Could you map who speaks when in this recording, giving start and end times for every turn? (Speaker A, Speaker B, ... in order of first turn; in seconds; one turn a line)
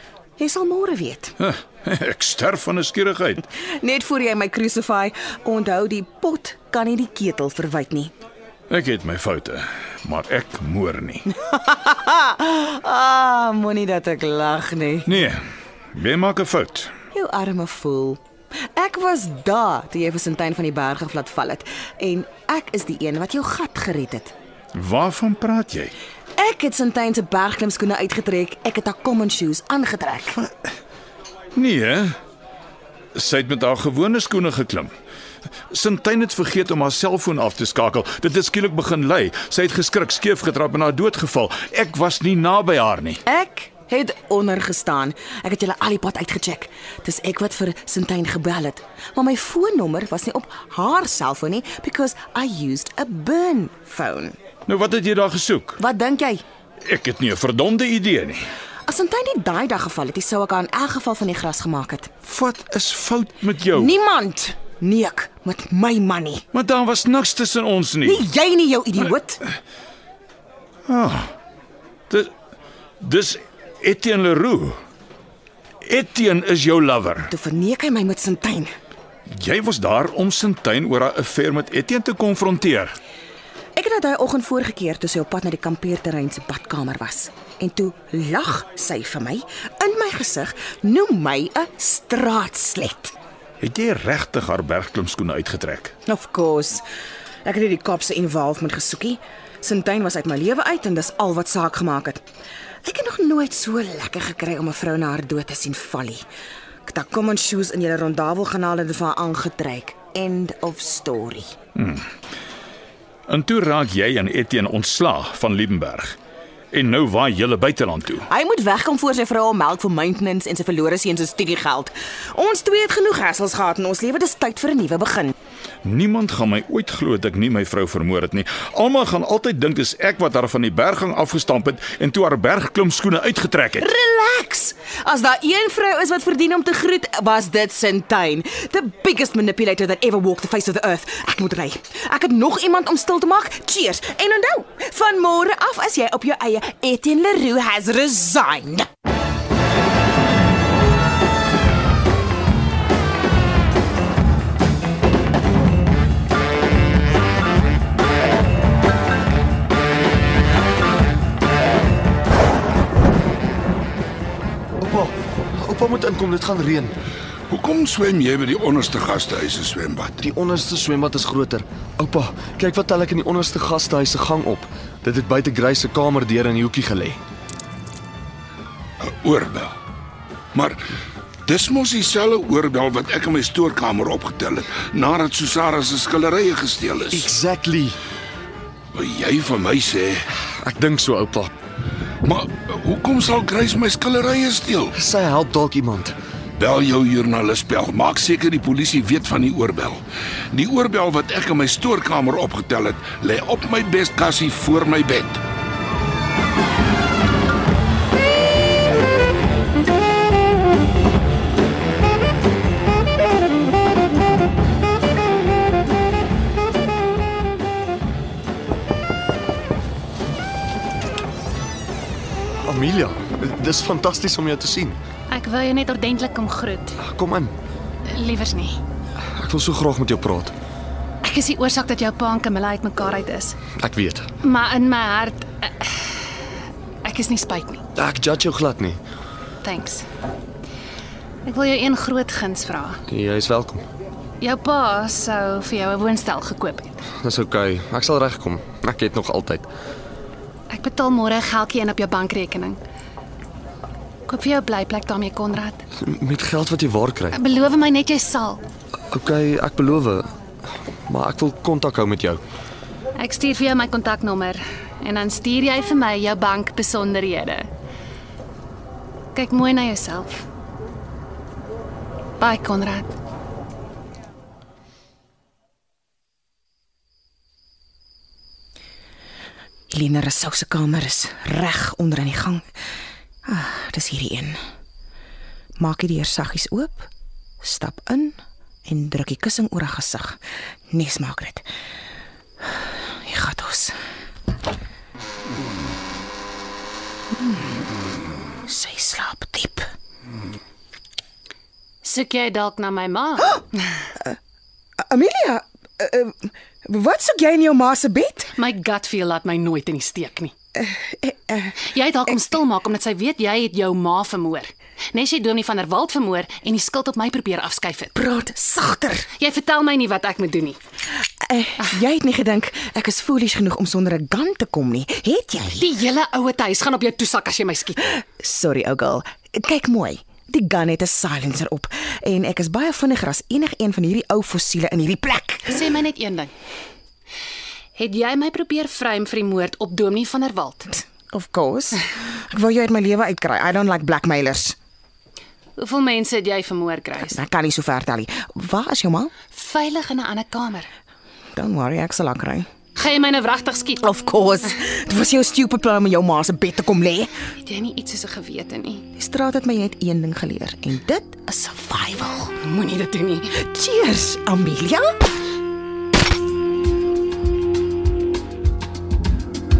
Speaker A: 0.4-1.3
Speaker B: 1.4-3.4
Speaker A: 3.5-8.1
Speaker B: 8.7-11.2
Speaker A: 11.3-15.1
Speaker B: 15.1-15.4
Speaker B: 15.9-16.9
Speaker A: 17.1-18.2
Speaker A: 18.7-24.3
Speaker B: 24.7-25.9
Speaker A: 26.4-30.4
Speaker B: 31.5-32.1
Speaker B: 33.1-34.9
Speaker B: 35.7-43.2
Speaker A: 43.3-54.4
Speaker B: 54.7-55.8
Speaker A: 55.8-56.4
Speaker B: 56.8-58.4
Speaker A: 58.9-62.1
Speaker B: 62.2-63.9
Speaker A: 63.7-66.4
Speaker B: 66.5-68.2
Speaker A: 68.0-69.4
Speaker B: 70.9-71.3
Speaker B: 73.0-74.8
Speaker B: 75.8-77.3
Speaker A: 77.3-78.7
Speaker B: 79.3-82.9
Speaker A: 83.8-93.1
Speaker B: 93.6-95.9
Speaker A: 96.1-96.8
Speaker A: 97.4-102.2
Speaker A: 102.8-106.2
Speaker A: 106.8-111.5
Speaker B: 111.8-112.0
Speaker B: 113.3-116.2
Speaker B: 116.7-118.2
Speaker A: 118.3-125.3
Speaker B: 125.8-133.9
Speaker A: 133.8-148.9
Speaker C: 164.8-166.9
Speaker D: 167.5-170.2
Speaker C: 170.2-177.2
Speaker D: 179.2-179.7
Speaker D: 181.4-187.3
Speaker C: 187.1-188.0
Speaker D: 188.9-190.2
Speaker C: 190.6-191.5
Speaker D: 192.2-194.9
Speaker C: 194.9-196.2
Speaker D: 196.6-200.0
Speaker D: 200.5-205.4
Speaker C: 222.6-225.0
Speaker E: 225.3-227.0
Speaker C: 227.0-227.5
Speaker E: 228.1-228.8
Speaker C: 229.3-230.5
Speaker E: 231.2-233.6
Speaker C: 233.8-234.3
Speaker E: 234.4-236.1
Speaker E: 237.0-237.8
Speaker C: 237.9-239.0
Speaker E: 239.6-240.1
Speaker E: 241.4-243.0
Speaker C: 243.1-243.8
Speaker E: 244.4-247.0
Speaker C: 247.2-249.7
Speaker E: 250.7-252.8
Speaker E: 254.3-255.8
Speaker C: 256.0-257.4
Speaker E: 257.3-258.6
Speaker C: 259.1-260.3
Speaker C: 261.1-262.4
Speaker E: 263.2-267.7
Speaker E: 269.3-270.4
Speaker E: 272.4-273.1
Speaker A: 279.9-282.6
Speaker A: 283.4-284.6
Speaker A: 285.8-287.1
Speaker A: 287.6-290.4
Speaker A: 290.9-291.6
Speaker A: 293.2-293.9
Speaker A: 298.6-299.9
Speaker E: 302.0-303.6
Speaker A: 305.1-308.5
Speaker E: 308.6-310.5
Speaker A: 310.8-311.8
Speaker E: 311.8-318.1
Speaker A: 318.1-319.3
Speaker E: 319.4-320.8
Speaker A: 321.4-325.9
Speaker E: 325.8-328.1
Speaker A: 328.4-335.8
Speaker E: 335.7-336.5
Speaker E: 337.9-340.9
Speaker A: 341.3-344.8
Speaker E: 345.8-347.4
Speaker A: 347.3-349.3
Speaker E: 349.5-350.9
Speaker A: 351.5-352.7
Speaker E: 352.9-354.1
Speaker A: 354.0-357.3
Speaker E: 357.6-359.0
Speaker A: 359.1-362.5
Speaker E: 362.6-363.5
Speaker A: 363.6-365.1